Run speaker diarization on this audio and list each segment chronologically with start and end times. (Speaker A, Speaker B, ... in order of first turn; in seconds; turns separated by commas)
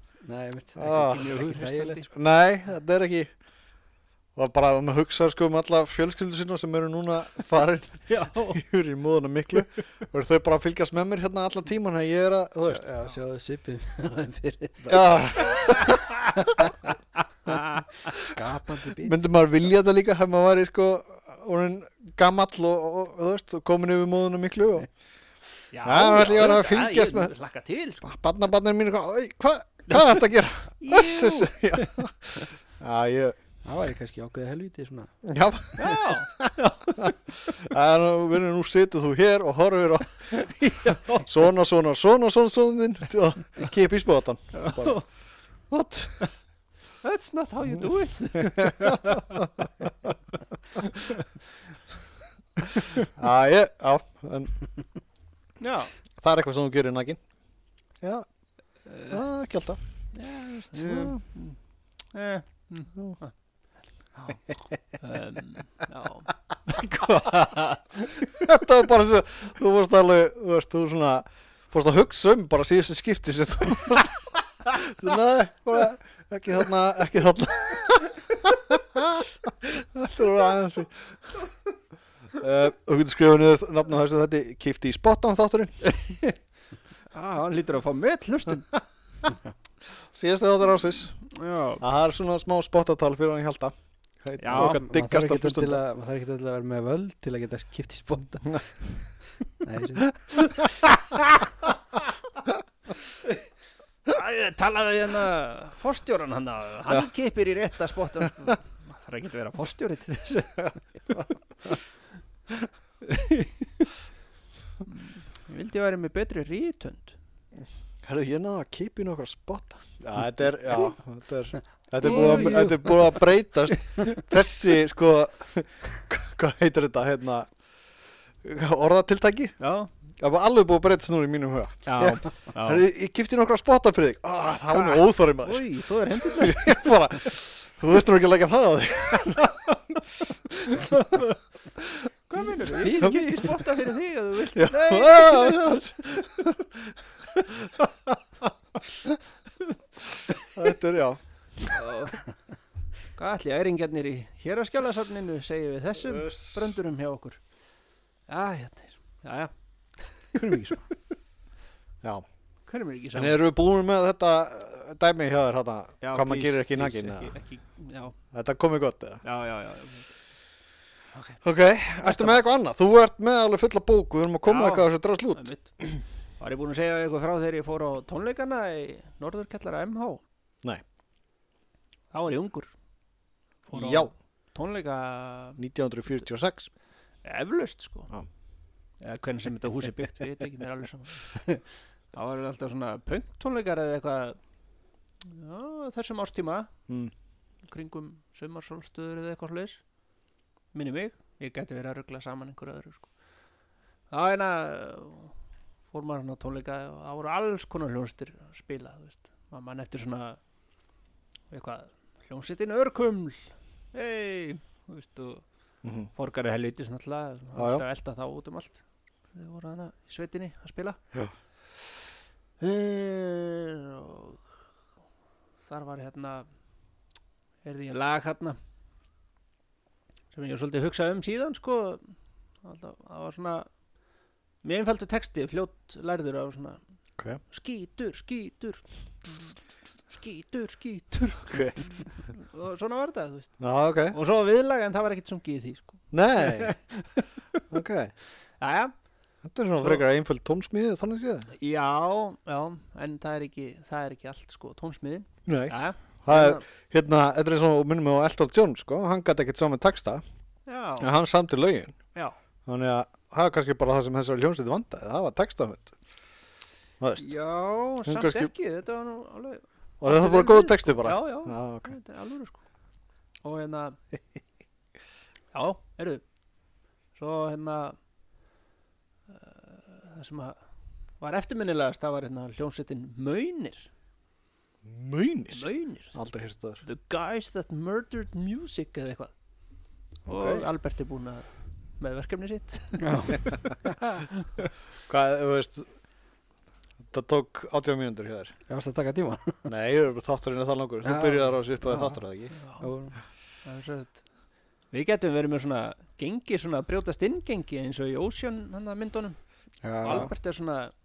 Speaker A: 0.3-2.0, Speaker B: 0.8-1.4, Speaker C: 0.9-2.1, Speaker B: 2.1-3.3, Speaker B: 4.3-12.9, Speaker C: 8.1-8.6, Speaker A: 12.7-15.3, Speaker B: 14.9-16.7, Speaker C: 15.4-16.1, Speaker C: 17.5-17.8, Speaker A: 18.1-19.2, Speaker B: 19.0-24.9, Speaker C: 25.7-28.0, Speaker B: 25.8-27.3, Speaker B: 28.0-33.4, Speaker C: 30.8-31.9, Speaker A: 33.6-35.1, Speaker B: 35.2-45.0, Speaker C: 35.8-37.1, Speaker C: 40.3-41.2, Speaker C: 44.5-45.0, Speaker B: 45.7-46.3, Speaker C: 47.0-49.5, Speaker B: 48.4-50.1, Speaker C: 50.8-51.3, Speaker B: 53.1-54.5, Speaker C: 55.6-55.9, Speaker B: 56.2-57.2, Speaker B: 58.0-58.2, Speaker C: 58.9-59.2, Speaker B: 59.1-59.8, Speaker C: 60.1-61.6, Speaker B: 60.7-61.2, Speaker C: 62.1-63.3, Speaker C: 64.2-64.4, Speaker C: 64.9-68.5, Speaker B: 68.3-81.3, Speaker B: 82.3-85.8, Speaker C: 85.8-86.4, Speaker C: 87.1-88.7, Speaker B: 90.0-91.2, Speaker C: 91.3-91.8, Speaker B: 91.8-95.8, Speaker C: 94.4-94.8, Speaker A: 94.5-98.7, Speaker A: 99.6-100.2, Speaker C: 104.0-111.3, Speaker C: 113.0-113.9, Speaker C: 114.8-117.2, Speaker B: 118.0-127.5, Speaker C: 122.0-123.2, Speaker B: 128.4-129.5, Speaker C: 129.6-129.9, Speaker B: 130.2-135.6, Speaker C: 131.8-132.8, Speaker C: 134.7-136.7, Speaker B: 136.2-139.7, Speaker B: 140.7-141.2, Speaker C: 140.7-141.4, Speaker C: 142.3-145.8, Speaker A: 142.7-143.7, Speaker B: 144.5-149.2, Speaker B: 150.4-151.2, Speaker C: 151.6-152.2, Speaker C: 153.2-157.4, Speaker B: 156.0-156.6, Speaker C: 158.3-160.9, Speaker C: 162.7-163.4, Speaker B: 163.1-167.3, Speaker C: 166.0-168.2, Speaker B: 168.3-169.2, Speaker C: 169.2-170.1, Speaker C: 171.1-171.4, Speaker B: 171.4-176.0, Speaker C: 172.0-172.4, Speaker C: 174.4-175.8, Speaker C: 176.4-180.2, Speaker C: 182.1-182.7, Speaker C: 183.7-185.6, Speaker B: 183.7-184.1, Speaker B: 185.6-186.7, Speaker C: 187.2-188.1, Speaker C: 189.0-194.4, Speaker C: 195.2-196.7, Speaker C: 197.7-199.8, Speaker C: 200.7-203.1, Speaker C: 204.1-205.3, Speaker C: 205.9-210.4, Speaker C: 211.5-215.4, Speaker B: 215.8-216.1, Speaker C: 216.1-218.8, Speaker B: 217.5-217.8, Speaker C: 219.3-221.0, Speaker C: 222.6-224.4, Speaker C: 225.6-226.5, Speaker C: 227.6-228.6, Speaker C: 230.3-233.7, Speaker C: 234.6-236.8, Speaker C: 237.5-239.5, Speaker C: 240.1-247.6, Speaker B: 241.5-241.9, Speaker B: 243.6-244.2, Speaker B: 246.1-246.7, Speaker B: 247.7-248.1, Speaker C: 248.6-248.9, Speaker B: 249.4-251.5, Speaker C: 251.5-256.6, Speaker B: 255.4-260.2, Speaker C: 260.7-261.1, Speaker B: 261.0-261.9, Speaker B: 262.6-265.9, Speaker B: 267.0-267.3, Speaker C: 267.1-272.6, Speaker B: 268.0-268.5, Speaker B: 270.0-272.0, Speaker C: 273.4-274.0, Speaker C: 275.5-276.2, Speaker C: 277.1-278.0, Speaker C: 279.3-280.6, Speaker C: 281.2-283.9, Speaker B: 284.8-286.8, Speaker C: 285.5-286.2, Speaker C: 286.8-289.3, Speaker C: 290.2-293.6, Speaker B: 290.3-290.7, Speaker A: 293.0-294.1, Speaker B: 295.1-295.9, Speaker B: 297.1-298.6, Speaker A: 298.7-299.6, Speaker B: 299.6-302.5, Speaker A: 301.0-302.2, Speaker C: 302.5-302.9, Speaker A: 302.8-303.2, Speaker C: 303.6-304.2, Speaker C: 304.9-309.4, Speaker A: 309.8-310.3, Speaker C: 310.0-310.9